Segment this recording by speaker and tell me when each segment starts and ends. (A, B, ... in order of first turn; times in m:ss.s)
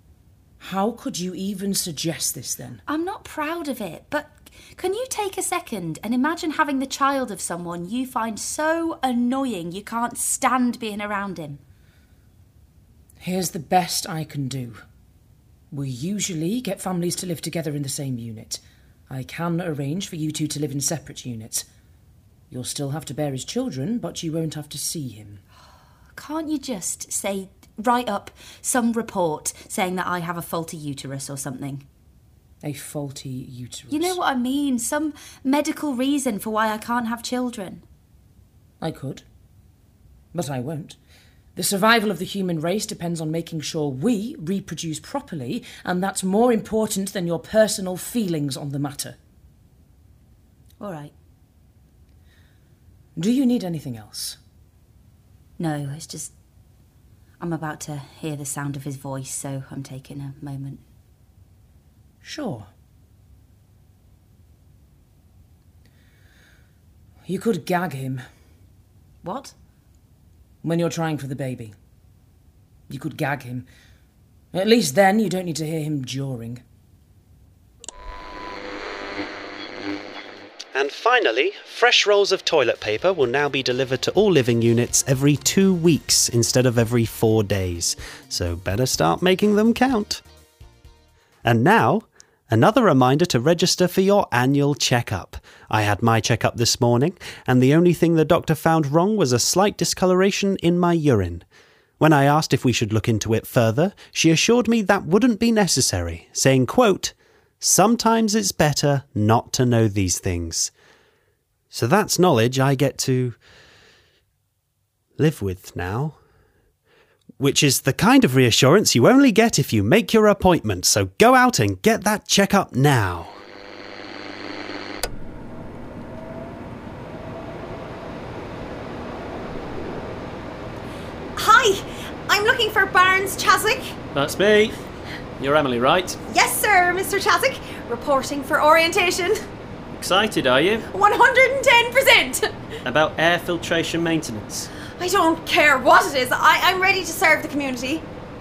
0:00.6-0:02.8 A
0:02.9-0:11.6 B
0:13.2-0:14.8 A
0:15.7-0:21.6 A
0:22.5-0:25.4 A
0:26.1-0:31.8 B
0:32.6-0:34.2 A
0:33.9-0:37.8 B
0:38.8-0:39.2 A
0:40.3-0:41.0 A
0:41.6-0:49.2 A
0:50.8-0:51.1 B
0:53.2-0:54.4 A
0:55.6-0:56.3 B
0:57.4-1:00.8 B
1:02.2-1:02.7 A
1:07.3-1:08.2 A
1:09.2-1:09.5 B
1:10.6-1:11.7 A
1:12.9-1:13.6 A
1:14.5-1:16.6 A
1:20.7-1:30.2 C
1:31.4-1:41.4 C
1:42.0-1:50.7 C
1:51.7-1:53.4 C
1:55.2-1:56.2 C
1:57.4-2:03.4 C
2:11.4-2:13.9 D
2:14.1-2:14.8 E
2:15.4-2:16.2 E
2:16.3-2:19.4 D
2:20.0-2:20.8 E
2:20.9-2:22.4 D
2:22.8-2:24.7 E
2:25.0-2:28.0 D